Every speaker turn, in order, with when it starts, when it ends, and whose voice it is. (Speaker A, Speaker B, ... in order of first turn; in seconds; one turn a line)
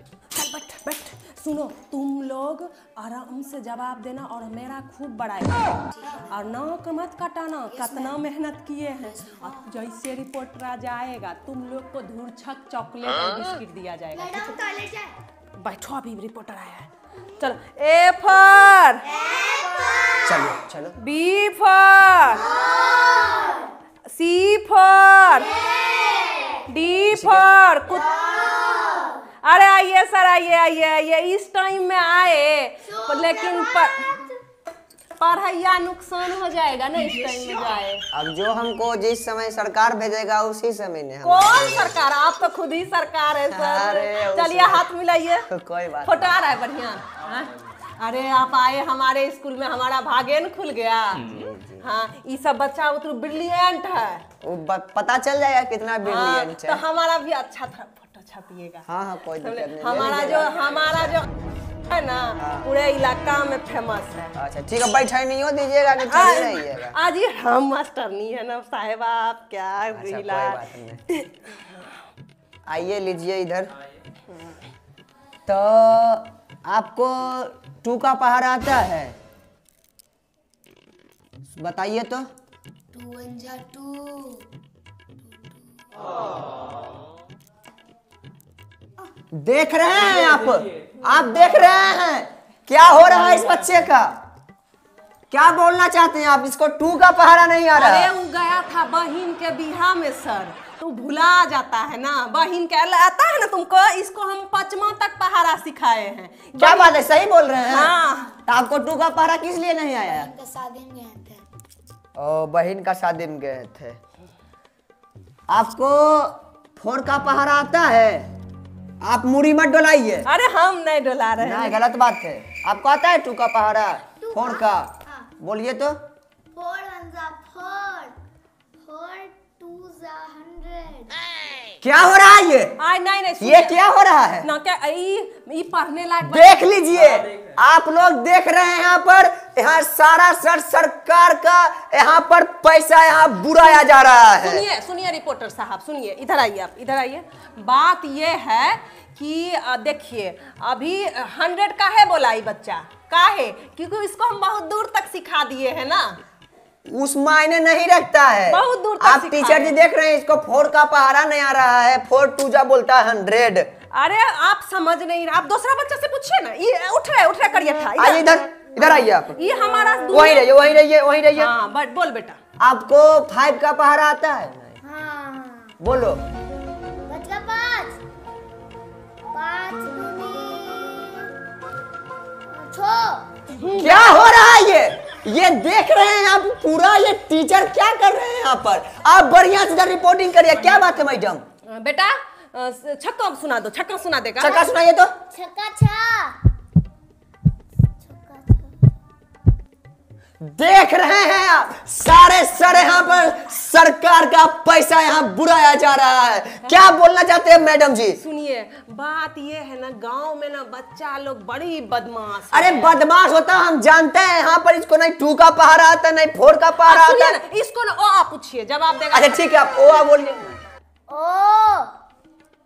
Speaker A: 0.3-14.7
Speaker B: 7.8-8.1
Speaker B: 9.1-9.6
Speaker B: 14.1-15.1
Speaker A: 15.6-19.1
Speaker B: 19.1-20.5
Speaker C: 20.2-20.9
Speaker A: 21.0-22.5
Speaker B: 22.4-23.7
Speaker A: 24.1-25.6
Speaker B: 25.4-26.7
Speaker A: 26.6-28.2
Speaker C: 27.1-27.5
Speaker B: 27.9-29.2
Speaker A: 29.4-34.2
Speaker B: 32.9-34.3
Speaker A: 35.2-38.0
Speaker C: 38.1-42.0
Speaker A: 41.2-45.5
Speaker C: 43.5-44.9
Speaker C: 45.5-46.4
Speaker A: 46.0-54.2
Speaker C: 51.2-51.9
Speaker C: 54.4-56.8
Speaker A: 56.0-61.3
Speaker C: 58.9-60.5
Speaker A: 61.9-64.3
Speaker C: 62.4-62.7
Speaker C: 64.3-67.0
Speaker A: 66.0-71.9
Speaker C: 69.9-71.0
Speaker C: 72.7-73.7
Speaker C: 75.5-79.2
Speaker C: 81.5-82.2
Speaker B: 82.9-84.5
Speaker C: 89.3-94.1
Speaker C: 95.3-98.1
Speaker A: 97.7-107.1
Speaker C: 106.6-107.9
Speaker A: 107.6-108.4
Speaker C: 108.5-110.3
Speaker B: 110.0-111.4
Speaker C: 112.2-114.0
Speaker C: 115.5-118.3
Speaker C: 119.0-120.3
Speaker A: 120.2-121.8
Speaker C: 121.4-125.9
Speaker B: 124.2-125.3
Speaker B: 126.5-128.2
Speaker B: 128.8-131.1
Speaker C: 131.8-132.8
Speaker A: 132.8-133.8
Speaker C: 133.4-134.5
Speaker A: 134.4-136.8
Speaker C: 136.3-144.7
Speaker A: 143.6-156.2
Speaker C: 156.9-163.7
Speaker A: 158.5-159.8
Speaker A: 163.9-170.8
Speaker C: 167.9-169.4
Speaker C: 170.1-171.5
Speaker A: 171.3-172.4
Speaker C: 172.6-174.8
Speaker B: 174.8-175.8
Speaker C: 175.8-176.2
Speaker B: 177.1-178.0
Speaker B: 179.3-181.3
Speaker B: 182.5-183.3
Speaker A: 183.5-184.3
Speaker C: 183.7-191.4
Speaker A: 191.7-194.7
Speaker C: 194.4-195.1
Speaker B: 195.3-196.4
Speaker B: 198.0-198.7
Speaker C: 200.4-208.2
Speaker A: 208.2-213.0
Speaker C: 212.5-217.4
Speaker A: 216.8-219.5
Speaker C: 219.1-220.5
Speaker B: 221.1-221.9